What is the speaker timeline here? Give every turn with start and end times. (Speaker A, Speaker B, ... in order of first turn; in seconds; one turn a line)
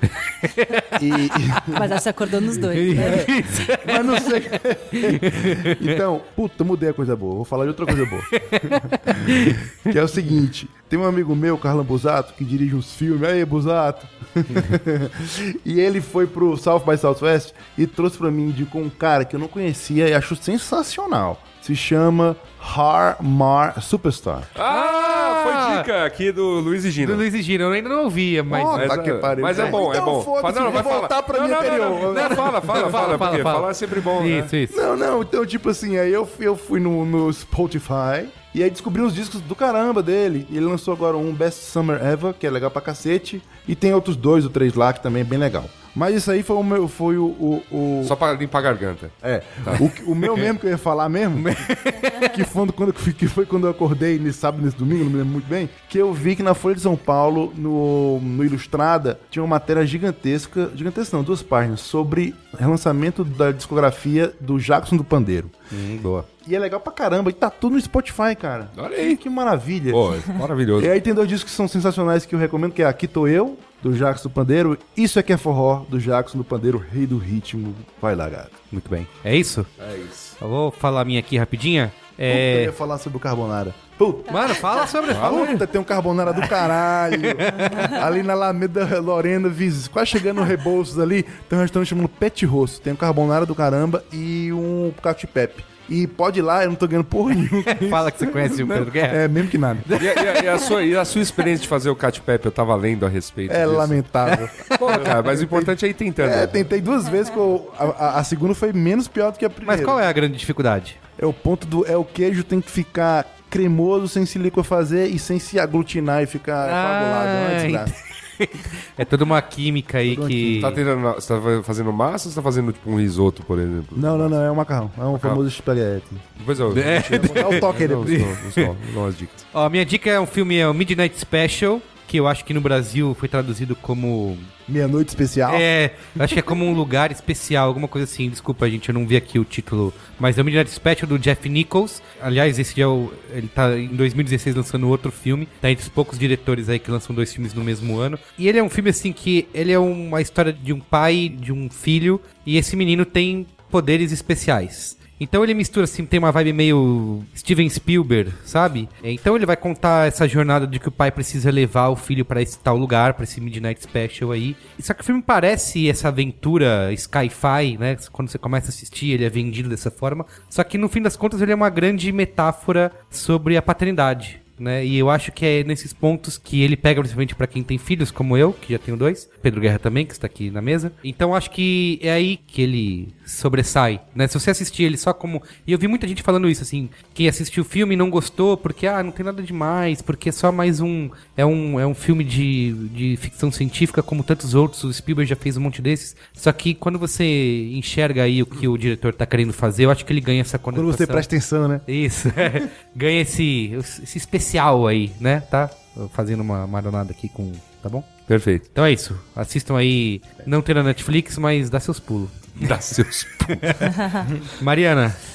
Speaker A: 0.2-1.8
Speaker B: 0.9-1.9
Speaker C: 1.7-3.4
Speaker A: 2.6-4.3
Speaker B: 2.9-24.5
Speaker A: 4.9-6.0
Speaker A: 8.4-9.7
Speaker D: 24.6-27.2
Speaker A: 24.6-25.9
Speaker A: 27.0-28.9
Speaker B: 28.5-33.3
Speaker D: 28.7-34.5
Speaker A: 29.5-29.8
Speaker A: 32.0-34.8
Speaker B: 34.7-48.1
Speaker D: 48.0-49.9
Speaker B: 49.2-65.5
Speaker A: 51.4-52.3
Speaker A: 65.7-66.3
Speaker B: 66.5-70.2
Speaker D: 68.8-69.2
Speaker D: 69.9-70.9
Speaker B: 70.8-78.5
Speaker A: 78.7-79.7
Speaker D: 79.8-80.3
Speaker A: 80.4-82.7
Speaker B: 82.3-99.9
Speaker A: 84.3-85.6
Speaker D: 85.1-85.6
Speaker A: 86.4-87.9
Speaker A: 97.7-99.3
Speaker A: 99.8-100.7
Speaker D: 100.0-104.0
Speaker B: 103.5-110.0
Speaker A: 104.7-105.1
Speaker D: 104.7-106.6
Speaker A: 109.6-111.0
Speaker B: 111.2-117.9
Speaker A: 116.6-120.8
Speaker B: 120.1-120.8
Speaker D: 120.5-124.3
Speaker B: 124.0-126.2
Speaker D: 125.1-125.4
Speaker D: 126.4-129.4
Speaker A: 126.7-128.7
Speaker B: 127.1-128.4
Speaker A: 129.5-134.5
Speaker B: 134.7-135.7
Speaker A: 135.5-201.3
Speaker B: 200.7-201.8
Speaker A: 201.9-208.1
Speaker D: 208.3-208.7
Speaker A: 208.7-212.7
Speaker D: 212.6-213.8
Speaker A: 213.5-213.9
Speaker C: 213.8-214.3
Speaker A: 214.5-215.2